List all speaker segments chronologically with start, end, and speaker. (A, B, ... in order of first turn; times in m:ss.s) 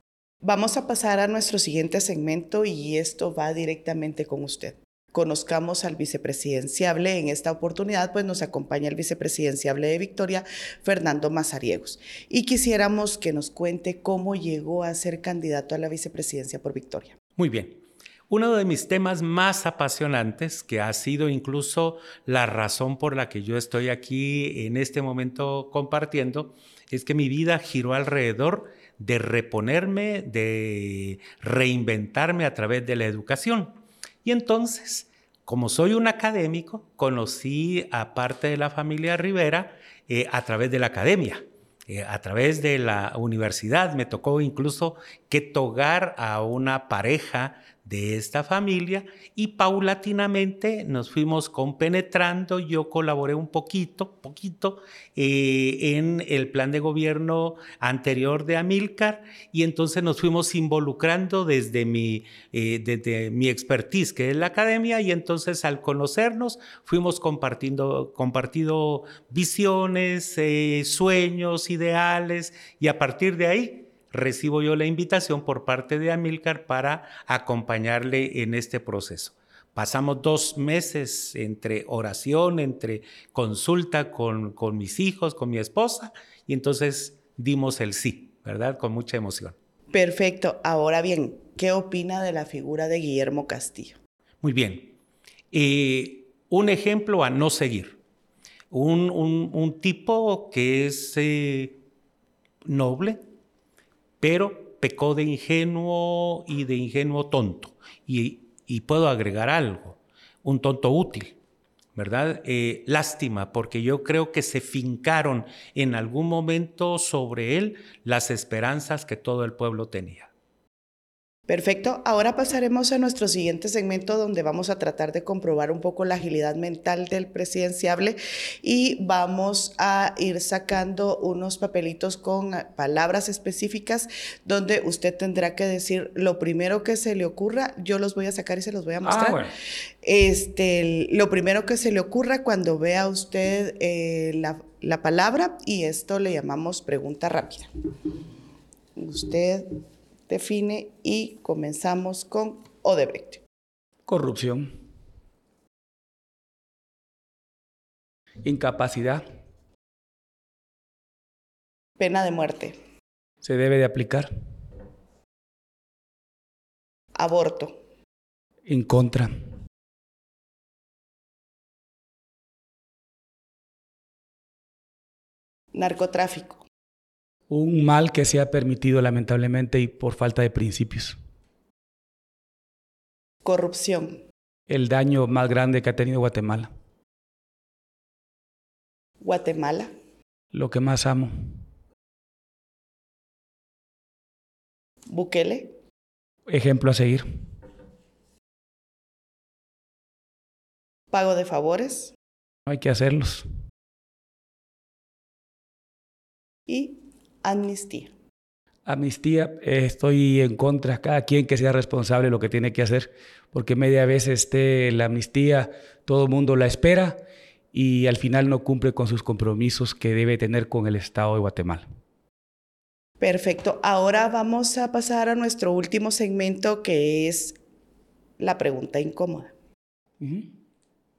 0:00.4-0:17.2 A
0:17.4-1:29.6 B
1:29.9-1:34.0 A
1:34.4-1:34.9 B
1:35.5-1:38.0 B
1:38.7-1:41.8 B
1:42.6-1:43.2 B
1:44.2-1:51.4 B
1:51.9-2:00.3 B
2:01.5-2:19.4 A
2:19.0-2:19.5 C
2:20.0-2:27.7 A
2:29.0-2:29.7 A
2:30.3-2:33.4 A
2:34.1-2:34.7 C
2:38.4-2:39.2 C
2:42.0-2:42.8 A
2:43.4-2:44.3 C
2:47.1-2:47.8 A
2:48.7-2:49.3 C
2:55.7-2:56.6 A
2:57.5-3:01.2 C
3:03.4-3:04.2 A
3:04.7-3:06.7 C
3:09.2-3:09.9 A
3:10.5-3:11.6 C
3:15.0-3:15.7 A
3:16.5-3:17.2 C
3:21.1-3:22.1 A
3:22.6-3:23.4 C
3:26.7-3:28.1 A
3:28.9-3:37.2 C
3:37.7-3:41.8 C
3:43.2-3:47.6 A
3:48.4-3:49.5 A
3:50.2-3:50.5 C